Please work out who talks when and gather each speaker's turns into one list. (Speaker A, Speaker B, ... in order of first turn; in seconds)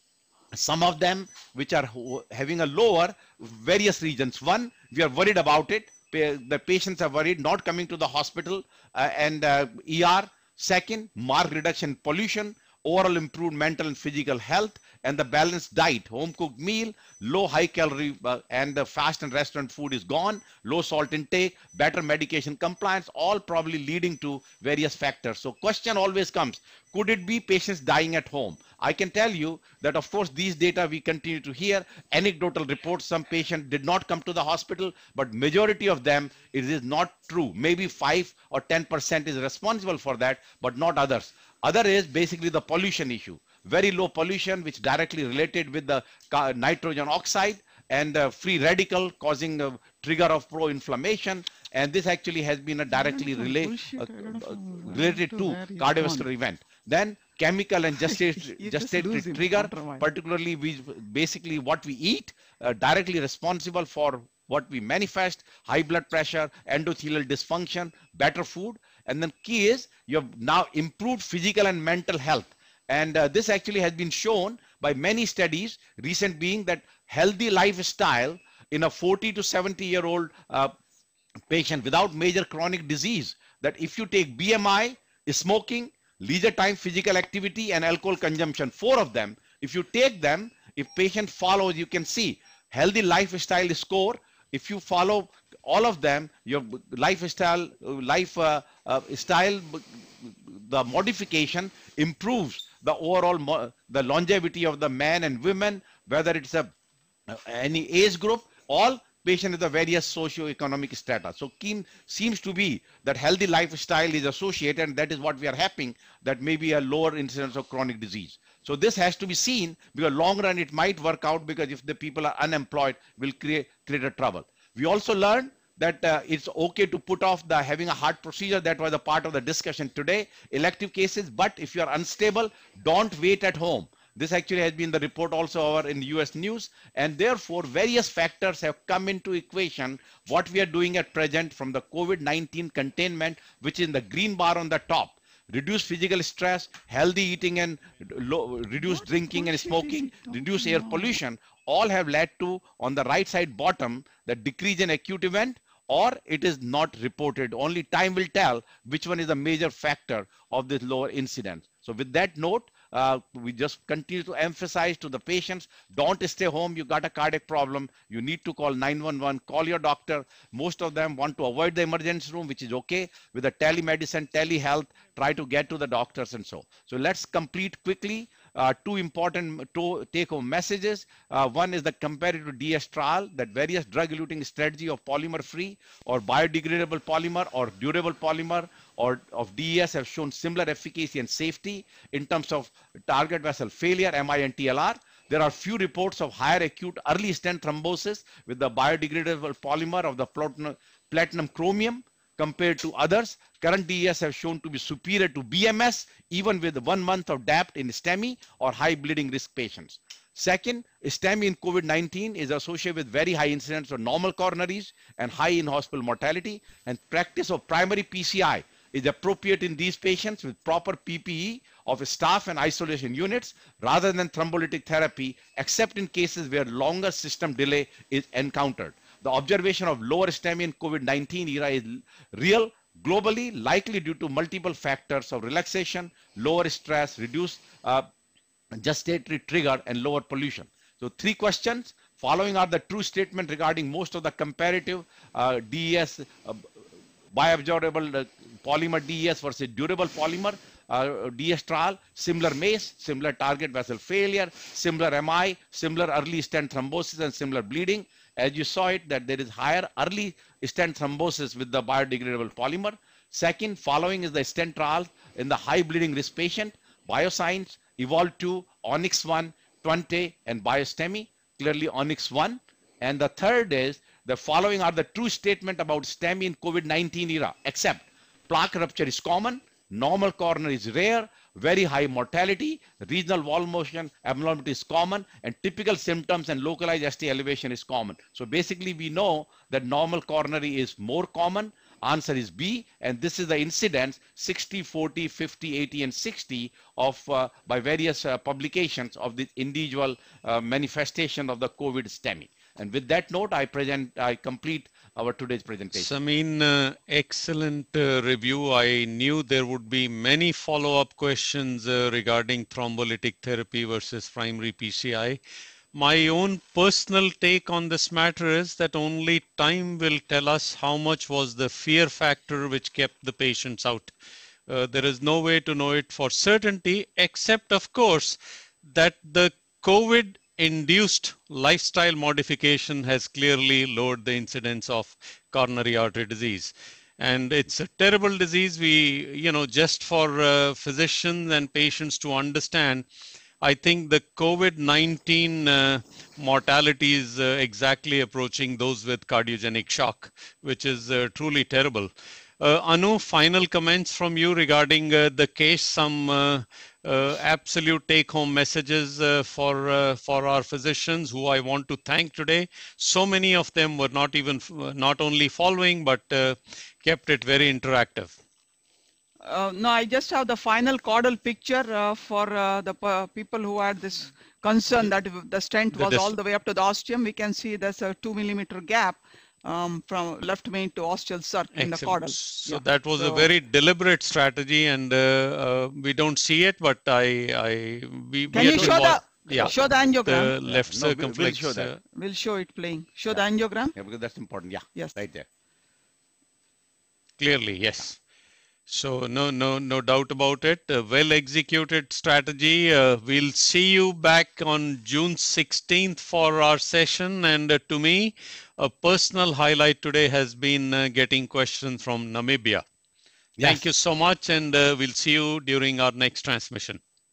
Speaker A: 0.5-80.7, 81.5-106.7, 107.3-238.1, 238.7-246.7, 247.3-306.1, 388.5-389.7, 390.6-391.9, 393.9-395.5, 413.6-413.8
Speaker B: 52.9-56.3, 58.0-60.0, 148.8-151.2, 369.4-383.5, 388.5-390.6, 392.1-393.9
Speaker C: 305.9-315.4, 315.9-324.1, 324.7-343.1, 343.6-368.3, 375.9-376.3, 381.7-392.0, 397.4-398.2, 398.9-412.8, 413.6-417.0